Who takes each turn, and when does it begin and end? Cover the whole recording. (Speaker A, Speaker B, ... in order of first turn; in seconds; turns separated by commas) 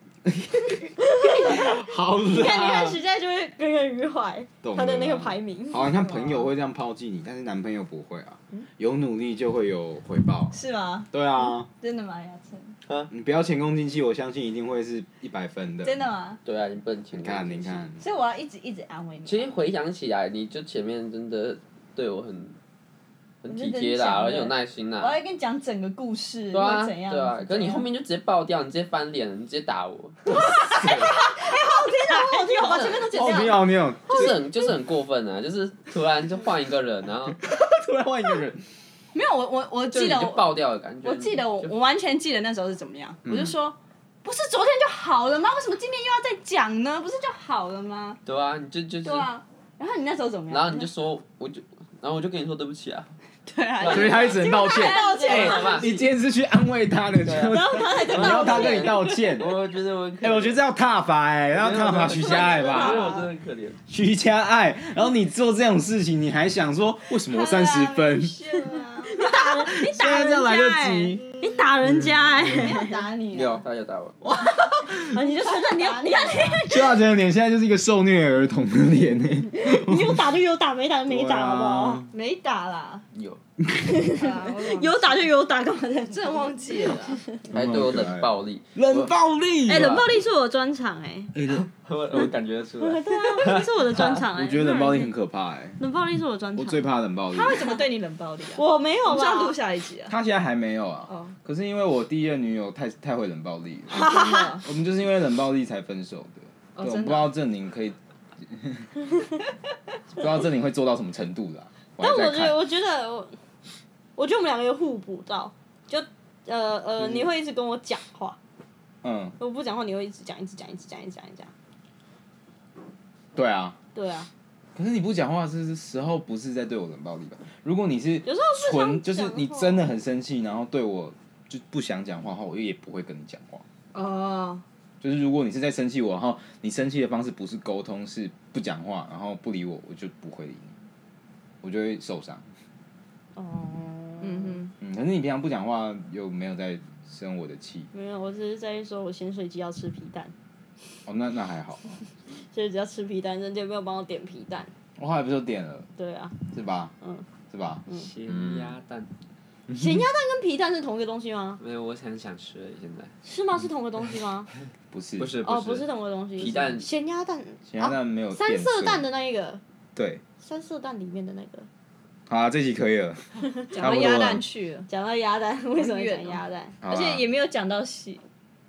Speaker A: 0.2-0.8, Speaker B: 1.0-5.8, Speaker A: 1.5-3.0, Speaker A: 4.6-10.5, Speaker C: 5.9-6.5, Speaker C: 10.5-12.8, Speaker A: 11.1-11.7, Speaker A: 13.1-16.0, Speaker C: 15.8-16.4, Speaker D: 16.4-17.8, Speaker A: 17.1-18.0, Speaker C: 18.0-19.6, Speaker D: 19.2-22.6, Speaker D: 23.4-25.2, Speaker C: 23.4-27.9, Speaker D: 26.5-31.1, Speaker C: 30.3-33.5, Speaker B: 31.8-33.6, Speaker D: 32.6-33.1, Speaker A: 33.1-34.4, Speaker D: 34.1-37.4, Speaker A: 37.4-38.6, Speaker C: 39.1-48.2, Speaker D: 39.9-41.7, Speaker A: 43.2-43.6, Speaker D: 48.2-49.3, Speaker C: 49.0-50.9, Speaker D: 50.5-53.1, Speaker C: 53.5-55.8, Speaker D: 53.8-54.4, Speaker A: 53.9-59.6, Speaker B: 54.2-55.9, Speaker D: 55.1-56.0, Speaker D: 57.2-60.6, Speaker B: 57.5-59.0, Speaker A: 60.2-63.0, Speaker D: 61.5-63.8, Speaker B: 62.2-63.3, Speaker C: 62.6-63.2, Speaker A: 63.9-68.4, Speaker C: 67.2-69.2, Speaker B: 69.1-73.0, Speaker A: 69.8-71.2, Speaker C: 72.5-73.6, Speaker D: 73.3-74.2, Speaker B: 74.3-77.0, Speaker C: 75.4-76.6, Speaker A: 76.7-80.4, Speaker B: 79.5-82.0, Speaker A: 81.1-82.1, Speaker C: 82.1-83.0, Speaker D: 83.1-83.4, Speaker A: 83.6-83.9, Speaker B: 83.8-86.5, Speaker C: 84.1-85.3, Speaker C: 86.1-87.2, Speaker B: 87.1-87.4, Speaker A: 87.5-89.9, Speaker D: 87.5-89.1, Speaker B: 89.7-91.3, Speaker D: 89.7-90.1, Speaker A: 91.3-92.3, Speaker D: 91.5-94.2, Speaker B: 92.8-95.1, Speaker A: 94.3-95.8, Speaker B: 95.8-96.8, Speaker A: 96.5-97.7, Speaker C: 97.3-100.1, Speaker B: 98.5-99.5, Speaker A: 100.1-108.9, Speaker C: 101.1-101.3, Speaker C: 103.9-104.6, Speaker B: 104.0-104.5, Speaker C: 106.8-107.3, Speaker A: 110.1-112.6, Speaker B: 112.0-113.3, Speaker B: 114.2-118.4, Speaker A: 117.0-117.3, Speaker A: 119.0-119.3, Speaker B: 119.4-121.5, Speaker A: 123.3-123.8, Speaker B: 123.9-124.3, Speaker A: 124.8-133.6, Speaker B: 128.2-129.9, Speaker C: 133.9-134.6, Speaker A: 135.0-140.7, Speaker A: 141.6-142.4, Speaker B: 143.3-144.6, Speaker C: 144.2-144.7, Speaker A: 144.8-147.9, Speaker B: 147.9-150.3, Speaker A: 151.1-152.0, Speaker B: 152.3-154.7, Speaker A: 155.0-155.9, Speaker B: 156.0-156.4, Speaker A: 156.5-156.9, Speaker B: 157.0-157.3, Speaker A: 157.5-158.8, Speaker D: 157.9-159.1, Speaker B: 159.7-161.6, Speaker D: 161.6-163.1, Speaker B: 163.2-164.5, Speaker A: 164.9-165.3, Speaker D: 165.2-166.9, Speaker B: 165.4-169.6, Speaker A: 167.7-169.1, Speaker A: 169.9-170.2, Speaker B: 170.4-171.7, Speaker A: 172.3-174.4, Speaker B: 173.4-173.8, Speaker C: 173.7-174.9, Speaker B: 174.9-176.8, Speaker C: 175.7-178.2, Speaker A: 176.8-177.2